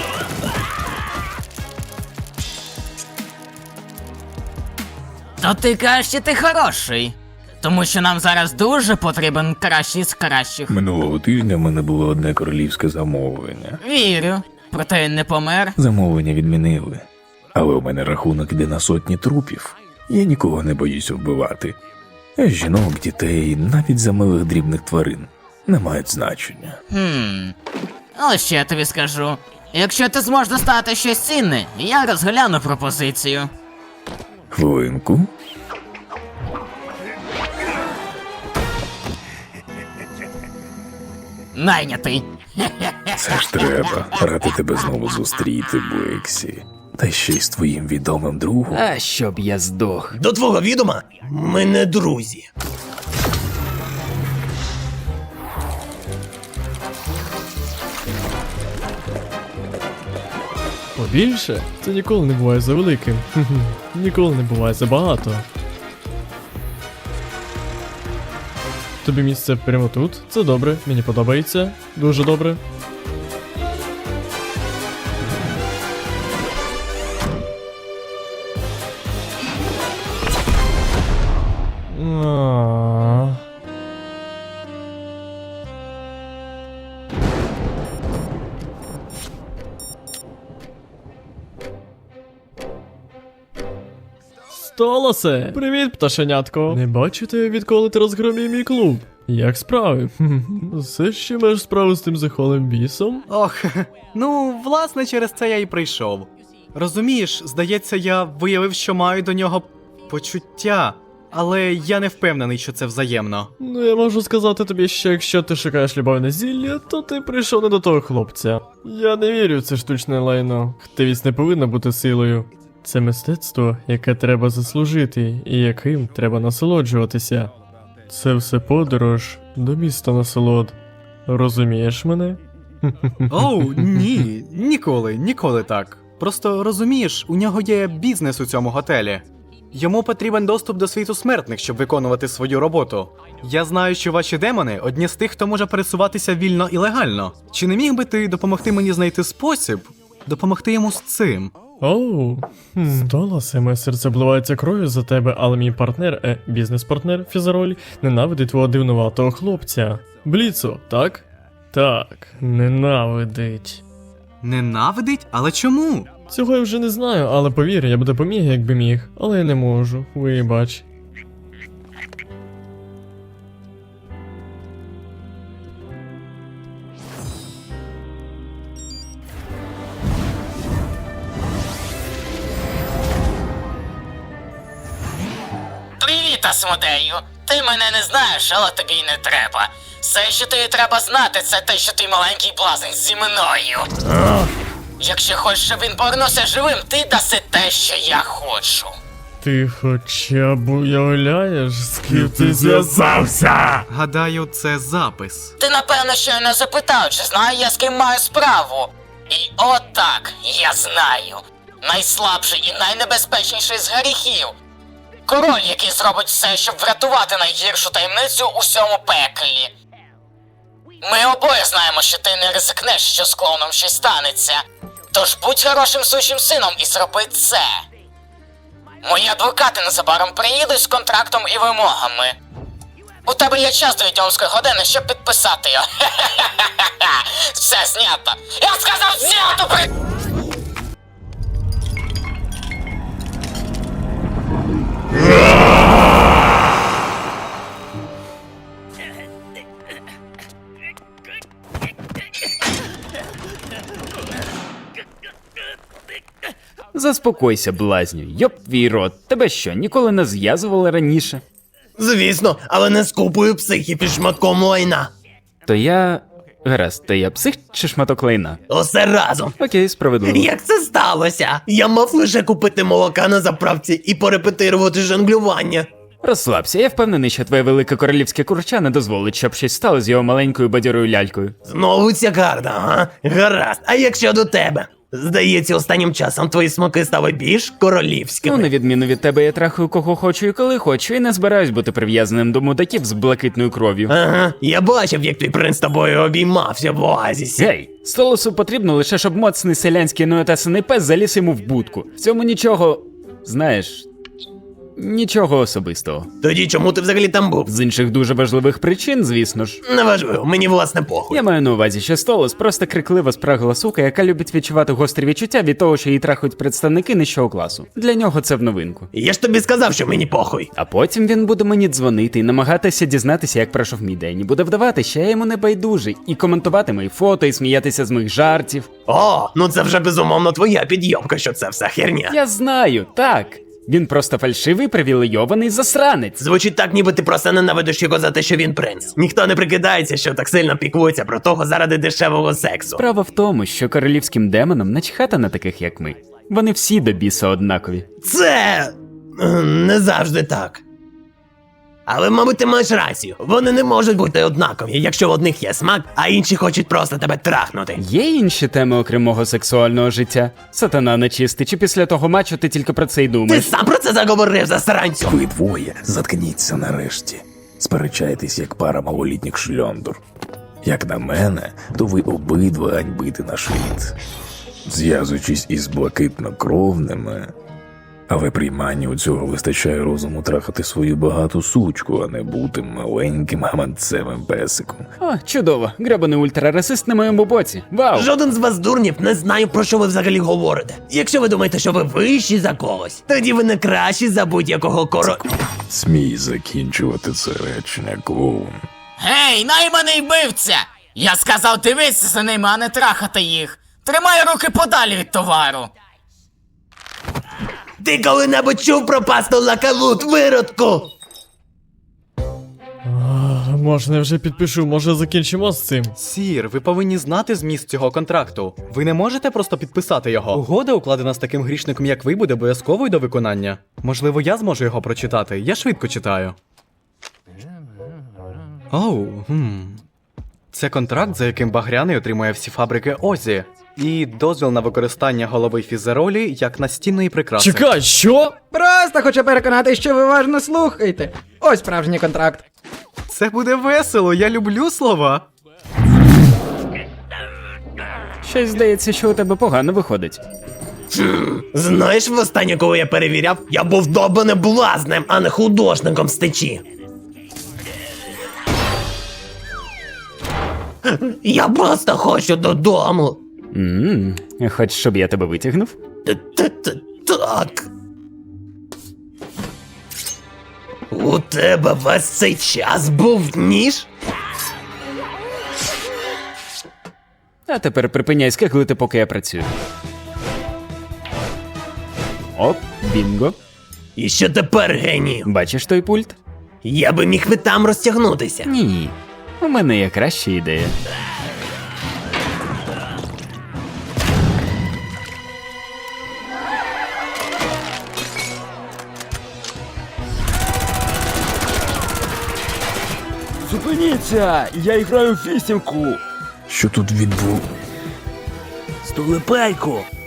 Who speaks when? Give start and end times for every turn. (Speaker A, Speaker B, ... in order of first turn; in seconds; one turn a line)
Speaker A: 5.4-10.7
Speaker B: 10.7-13.8
Speaker A: 13.8-15.8
Speaker B: 15.8-21.8
Speaker B: 22.4-26.8
Speaker A: 26.9-27.6
Speaker A: 28.1-33.5
Speaker B: 34.5-35.3
Speaker A: 41.5-43.4
Speaker B: 43.1-48.8
Speaker C: 48.7-50.2
Speaker D: 50.1-52.5
Speaker E: 61.0-65.5
Speaker E: 69.0-72.6
Speaker E: 81.9-83.4
Speaker E: 94.6-103.2
Speaker F: 103.3-113.5
Speaker E: 113.6-127.5
Speaker E: 128.1-134.0
Speaker F: 133.3-151.5
Speaker E: 151.8-163.8
Speaker F: 164.4-166.1
Speaker E: 166.3-170.8
Speaker A: 186.0-193.9
Speaker D: 194.1-194.5
Speaker A: 195.0-199.0
Speaker E: 199.4-203.6
Speaker F: 203.9-205.5
Speaker A: 205.6-214.5
Speaker A: 215.3-219.7
Speaker A: 221.0-224.6
Speaker A: 225.1-227.8
Speaker A: 229.0-232.3
Speaker A: 233.3-239.9
Speaker C: 256.9-261.4
Speaker D: 262.0-265.1
Speaker C: 265.7-268.6
Speaker D: 268.7-269.6
Speaker C: 269.6-270.5
Speaker D: 270.3-275.9
Speaker C: 276.2-281.6
Speaker D: 281.6-288.7
Speaker C: 288.4-294.1
Speaker D: 294.1-297.7
Speaker C: 297.6-304.1
Speaker C: 305.0-306.3
Speaker D: 306.4-307.7
Speaker C: 307.7-309.8
Speaker D: 309.9-311.4
Speaker C: 311.3-319.1
Speaker D: 319.1-320.7
Speaker C: 320.8-328.9
Speaker D: 329.1-332.4
Speaker C: 332.3-336.4
Speaker D: 336.4-343.0
Speaker C: 343.0-348.1
Speaker D: 348.2-350.8
Speaker D: 352.1-358.0
Speaker C: 358.0-363.7
Speaker D: 363.5-365.4
Speaker B: 365.2-370.2
Speaker B: 370.8-374.2
Speaker B: 374.9-377.5
Speaker B: 378.3-385.1
Speaker C: 385.2-388.3
Speaker D: 388.1-395.5
Speaker B: 395.9-398.9
Speaker A: 399.2-405.9
Speaker D: 408.0-411.1
Speaker E: 413.1-416.1
Speaker F: 416.2-426.6
Speaker F: 428.9-430.0
Speaker F: 430.7-437.9
Speaker E: 437.6-438.6
Speaker G: 438.7-442.6
Speaker F: 443.3-445.5
Speaker C: 448.4-450.4
Speaker D: 451.1-456.8
Speaker D: 461.1-463.4
Speaker C: 463.7-466.0
Speaker D: 466.3-467.9
Speaker D: 471.1-474.1
Speaker C: 477.7-479.7
Speaker C: 482.6-483.6
Speaker D: 484.2-485.5
Speaker C: 485.4-486.4
Speaker D: 486.8-488.7
Speaker C: 488.6-491.0
Speaker H: 504.0-505.8
Speaker B: 506.7-507.7
Speaker H: 509.6-510.1